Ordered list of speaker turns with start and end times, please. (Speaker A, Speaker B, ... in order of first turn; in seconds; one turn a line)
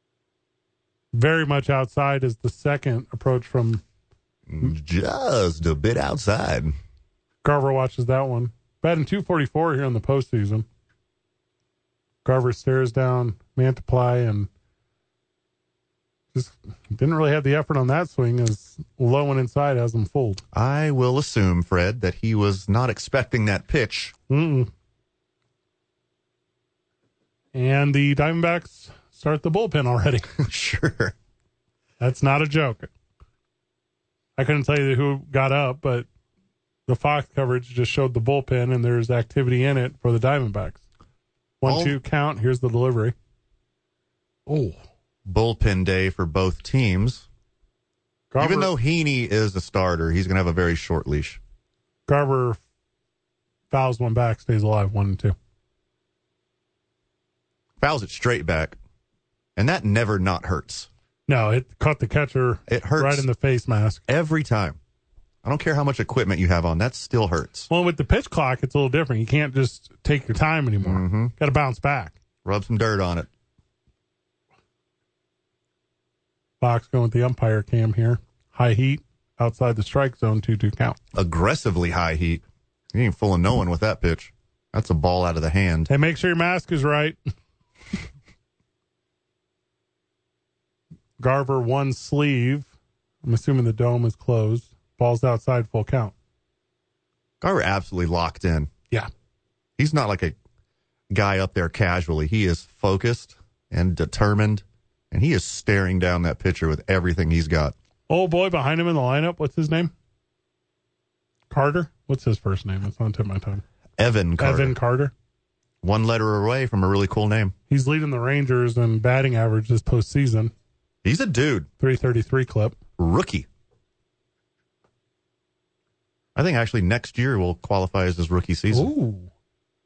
Speaker A: 1.1-3.8
Speaker B: 4.5-6.8
Speaker A: 7.4-10.7
Speaker A: 12.2-14.5
Speaker A: 16.3-20.4
Speaker B: 20.5-24.1
Speaker A: 24.3-24.7
Speaker A: 27.5-30.4
Speaker B: 30.4-31.1
Speaker A: 32.0-32.9
Speaker A: 34.4-36.1
Speaker A: 36.9-40.8
Speaker A: 41.6-43.1
Speaker B: 41.6-42.0
Speaker A: 44.5-44.8
Speaker B: 45.2-47.2
Speaker A: 48.3-48.7
Speaker B: 48.4-51.4
Speaker A: 52.1-52.6
Speaker A: 53.7-55.4
Speaker B: 57.8-58.8
Speaker B: 59.5-60.9
Speaker A: 61.3-64.0
Speaker B: 62.7-63.2
Speaker B: 64.1-64.8
Speaker B: 65.4-67.7
Speaker A: 67.7-72.1
Speaker B: 70.8-71.3
Speaker B: 72.4-73.3
Speaker A: 76.6-81.0
Speaker B: 81.1-85.9
Speaker A: 85.9-87.2
Speaker A: 91.2-92.7
Speaker A: 93.2-96.1
Speaker B: 97.4-98.7
Speaker B: 99.8-100.3
Speaker B: 101.1-107.7
Speaker A: 108.1-109.9
Speaker A: 111.5-113.6
Speaker B: 114.0-114.8
Speaker A: 114.4-115.1
Speaker B: 115.8-117.5
Speaker A: 117.7-120.5
Speaker B: 121.0-121.7
Speaker A: 121.8-122.8
Speaker B: 123.0-123.5
Speaker B: 126.3-128.9
Speaker A: 128.7-129.3